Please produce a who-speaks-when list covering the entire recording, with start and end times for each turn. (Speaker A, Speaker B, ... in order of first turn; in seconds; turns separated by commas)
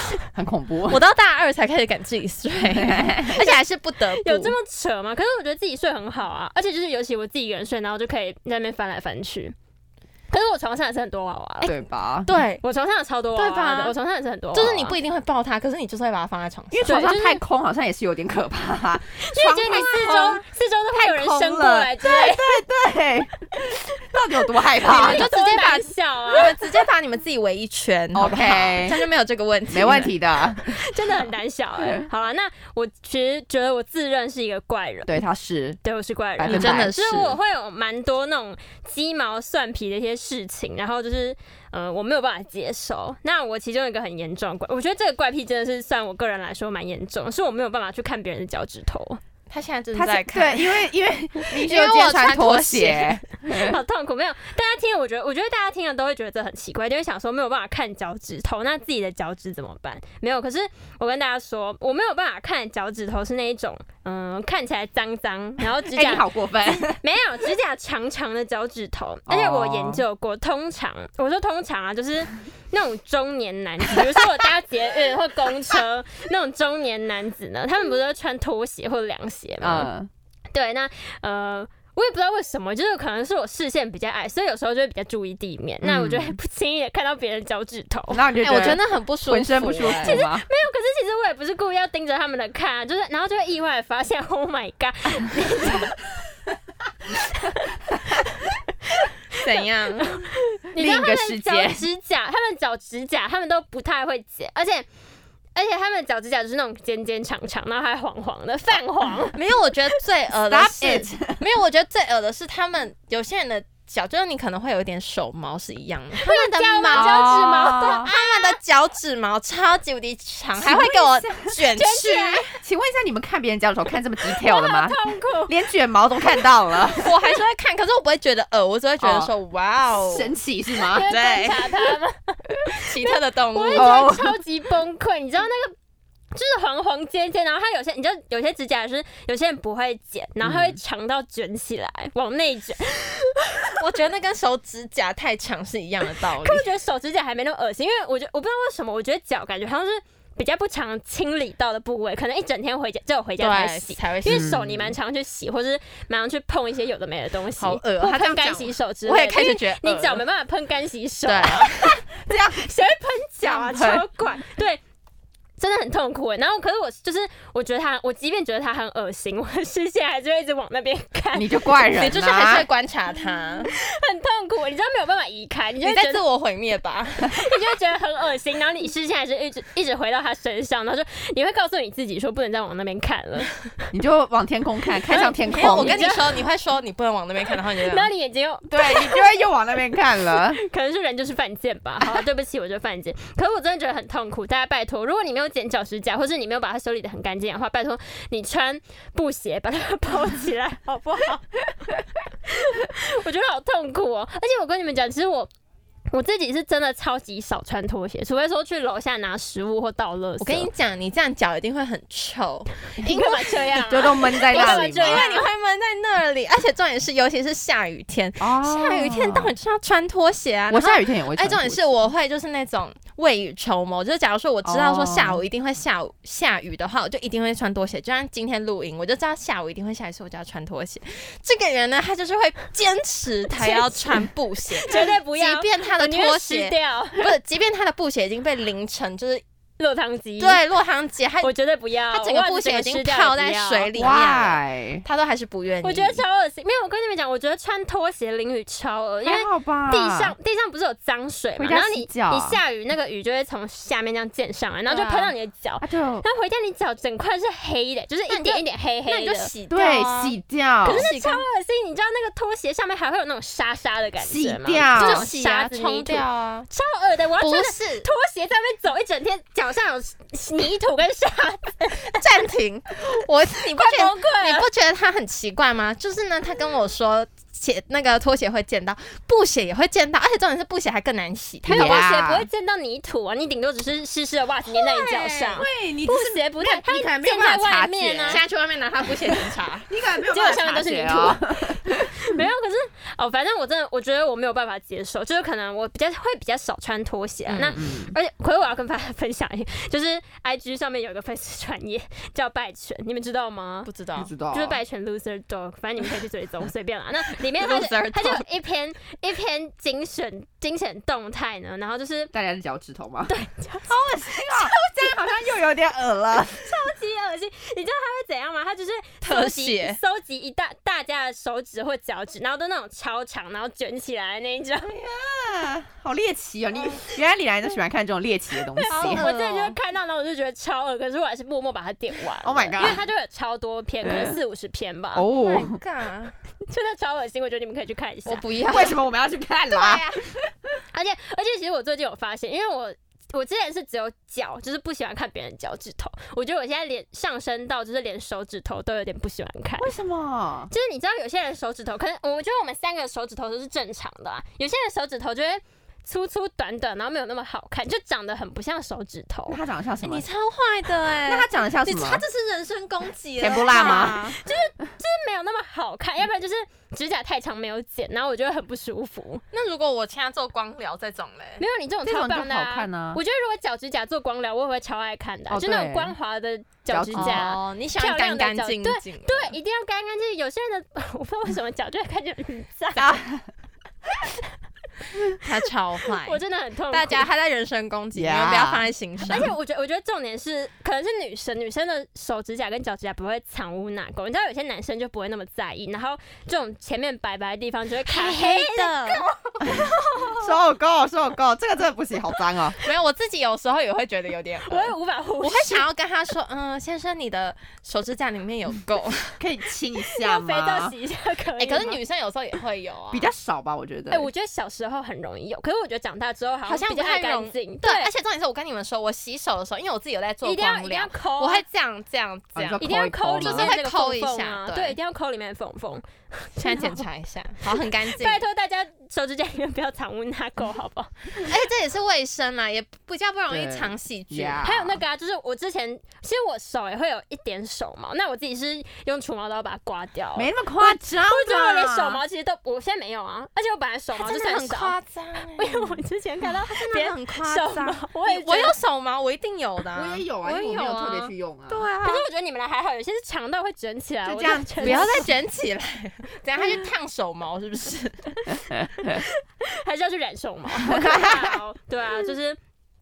Speaker A: 0.3-1.0, Speaker B: 0.9-4.5, Speaker A: 2.7-3.4, Speaker C: 3.4-9.6, Speaker C: 10.3-11.8, Speaker A: 11.6-12.3, Speaker B: 12.3-12.6, Speaker C: 12.6-15.0, Speaker B: 13.4-13.9, Speaker B: 14.5-16.8, Speaker A: 16.7-20.4, Speaker C: 16.9-17.4, Speaker C: 19.2-22.6, Speaker A: 20.9-25.3, Speaker C: 24.9-26.6, Speaker B: 24.9-30.1, Speaker A: 28.1-29.0, Speaker A: 29.7-31.2, Speaker C: 30.6-35.2, Speaker A: 31.8-32.1, Speaker A: 35.1-35.8, Speaker C: 35.9-49.2, Speaker A: 36.4-37.3, Speaker B: 36.4-37.3, Speaker B: 49.5-50.9, Speaker A: 50.0-53.8, Speaker B: 51.5-53.2, Speaker C: 53.5-79.9, Speaker A: 65.9-67.0, Speaker A: 69.3-70.0, Speaker A: 79.6-80.1, Speaker C: 80.5-88.8, Speaker A: 85.8-86.4, Speaker A: 88.1-90.5, Speaker B: 88.4-90.2, Speaker C: 89.9-95.9, Speaker A: 95.6-95.9, Speaker C: 97.1-99.0, Speaker B: 99.4-100.2, Speaker C: 100.2-104.9, Speaker A: 100.8-101.9, Speaker C: 105.5-109.4, Speaker B: 109.3-117.3, Speaker A: 110.4-111.4, Speaker C: 116.2-118.5, Speaker A: 116.9-118.1, Speaker B: 118.0-122.5, Speaker A: 120.6-121.6, Speaker C: 121.7-122.5, Speaker A: 122.6-127.2, Speaker C: 124.3-125.6, Speaker B: 127.0-130.3, Speaker A: 129.0-129.3, Speaker A: 129.9-131.1, Speaker C: 130.8-135.8, Speaker B: 131.1-131.8, Speaker B: 132.7-134.1, Speaker A: 133.7-134.4, Speaker C: 136.3-143.7, Speaker A: 140.4-140.8, Speaker B: 143.8-146.6, Speaker C: 146.4-164.8, Speaker B: 153.4-154.6, Speaker A: 154.3-155.0, Speaker B: 157.6-160.2, Speaker B: 161.3-162.0, Speaker A: 162.3-162.7, Speaker A: 163.4-164.1, Speaker C: 165.6-171.6, Speaker A: 171.3-172.7, Speaker B: 171.9-173.7, Speaker C: 173.7-176.2, Speaker B: 175.8-177.4, Speaker C: 177.3-183.6, Speaker A: 183.9-186.0, Speaker C: 185.0-186.4, Speaker B: 185.4-188.1, Speaker C: 187.7-201.6, Speaker A: 188.7-190.6, Speaker C: 202.5-205.5, Speaker C: 206.1-210.7, Speaker B: 210.4-213.8, Speaker C: 213.0-215.5, Speaker A: 213.8-215.3, Speaker B: 214.5-239.4, Speaker A: 218.4-219.5, Speaker A: 220.7-221.8, Speaker A: 224.7-225.4, Speaker C: 234.8-237.3, Speaker C: 239.8-240.6, Speaker B: 240.4-241.5, Speaker C: 241.4-243.9, Speaker B: 242.1-246.2, Speaker A: 243.9-245.1, Speaker C: 245.8-259.5, Speaker A: 249.2-250.3, Speaker A: 251.6-252.6, Speaker B: 254.9-255.3, Speaker A: 255.8-256.3, Speaker B: 258.3-260.4, Speaker A: 259.7-261.1, Speaker C: 260.9-272.2, Speaker B: 260.9-261.4, Speaker A: 264.2-265.3, Speaker B: 265.0-266.7, Speaker B: 267.4-268.1, Speaker B: 272.1-282.0, Speaker C: 273.7-274.7, Speaker A: 281.6-282.5, Speaker C: 281.7-288.4, Speaker B: 284.7-285.6, Speaker A: 285.6-288.4, Speaker B: 288.3-289.9, Speaker A: 289.3-292.5, Speaker C: 290.3-303.9, Speaker A: 297.5-298.2, Speaker B: 303.9-304.3, Speaker A: 304.2-304.8, Speaker C: 304.5-312.3, Speaker A: 307.6-308.4, Speaker A: 312.3-313.3, Speaker C: 313.3-315.3, Speaker A: 313.9-316.8, Speaker C: 316.5-324.9, Speaker B: 319.2-320.0, Speaker A: 324.9-329.3, Speaker C: 328.8-335.3, Speaker B: 328.9-329.8, Speaker A: 332.4-333.0, Speaker A: 334.0-334.4, Speaker A: 335.1-335.8, Speaker B: 335.4-336.3, Speaker C: 336.7-338.4, Speaker B: 338.3-339.0, Speaker A: 338.7-340.0, Speaker B: 339.7-340.2, Speaker C: 340.9-349.9, Speaker A: 349.8-350.7, Speaker C: 350.7-359.6, Speaker A: 359.5-360.2, Speaker B: 360.0-364.4, Speaker A: 361.2-362.2, Speaker A: 363.4-364.4, Speaker C: 363.7-369.4, Speaker B: 369.5-371.6, Speaker C: 371.6-383.2, Speaker A: 372.0-373.2, Speaker A: 375.5-376.1, Speaker A: 376.9-377.5, Speaker B: 377.1-379.6, Speaker A: 383.0-383.4, Speaker B: 385.4-386.4, Speaker C: 386.2-387.3, Speaker B: 386.9-389.5, Speaker A: 388.1-389.4, Speaker C: 389.3-399.2, Speaker B: 398.1-400.4, Speaker A: 400.4-402.8, Speaker B: 402.8-409.4, Speaker C: 404.6-405.9, Speaker A: 409.4-411.0, Speaker C: 410.2-412.0, Speaker B: 411.6-413.3, Speaker A: 413.1-414.3, Speaker C: 414.1-418.1, Speaker B: 416.6-422.8, Speaker C: 420.4-421.6, Speaker A: 422.6-423.7, Speaker C: 422.8-427.0, Speaker B: 423.4-425.0, Speaker B: 426.6-428.4, Speaker C: 427.7-431.4, Speaker B: 431.4-434.6, Speaker A: 433.5-435.0, Speaker C: 434.6-444.9, Speaker A: 440.4-442.2, Speaker B: 444.1-452.2, Speaker C: 445.5-448.8, Speaker A: 449.9-451.9, Speaker C: 452.0-455.3, Speaker A: 454.3-455.3, Speaker B: 454.8-458.3, Speaker A: 458.7-459.2, Speaker C: 459.0-462.6, Speaker A: 460.8-461.6